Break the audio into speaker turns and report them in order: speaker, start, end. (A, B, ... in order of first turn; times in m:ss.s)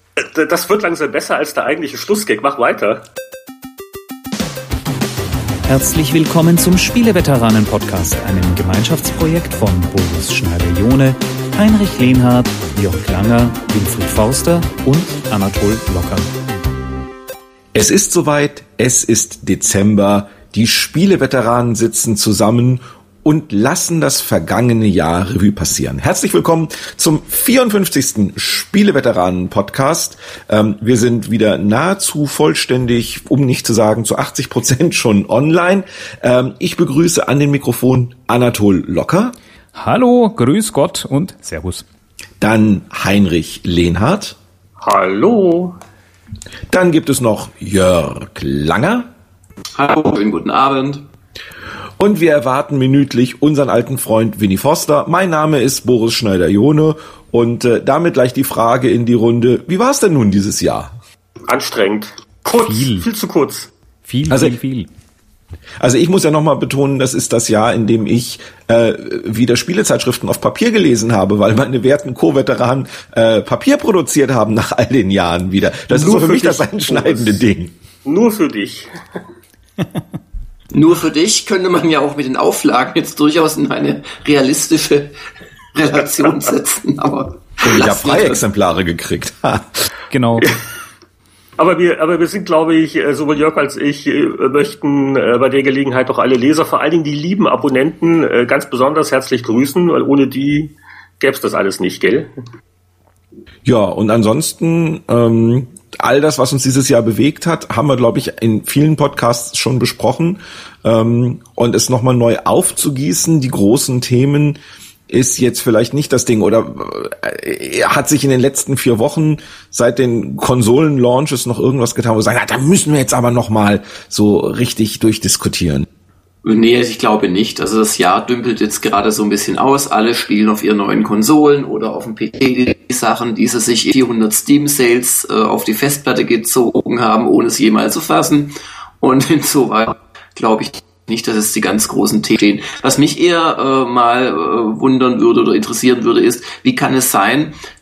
0:00.2-0:03.0 A
0:05.7-0:16.3 B
0:17.8-0:39.4 C
0:39.8-0:41.8 B
0:42.4-0:44.4 C
0:44.8-0:45.8 A
0:46.7-0:49.1 C
0:49.8-0:51.0 D
0:52.0-1:00.9 C
1:01.5-1:03.7 A
1:02.6-1:03.1 B
1:04.1-1:04.9 B
1:04.3-1:04.6 C
1:05.8-1:17.7 C
1:15.9-1:17.4 A
1:18.0-1:18.9 A
1:20.7-1:25.1 D
1:25.7-1:28.4 D
1:27.6-1:29.8 C
1:30.1-1:30.5 B
1:31.6-1:42.3 A
1:43.6-1:54.6 C
1:55.1-2:05.9 C
2:06.4-2:27.6 D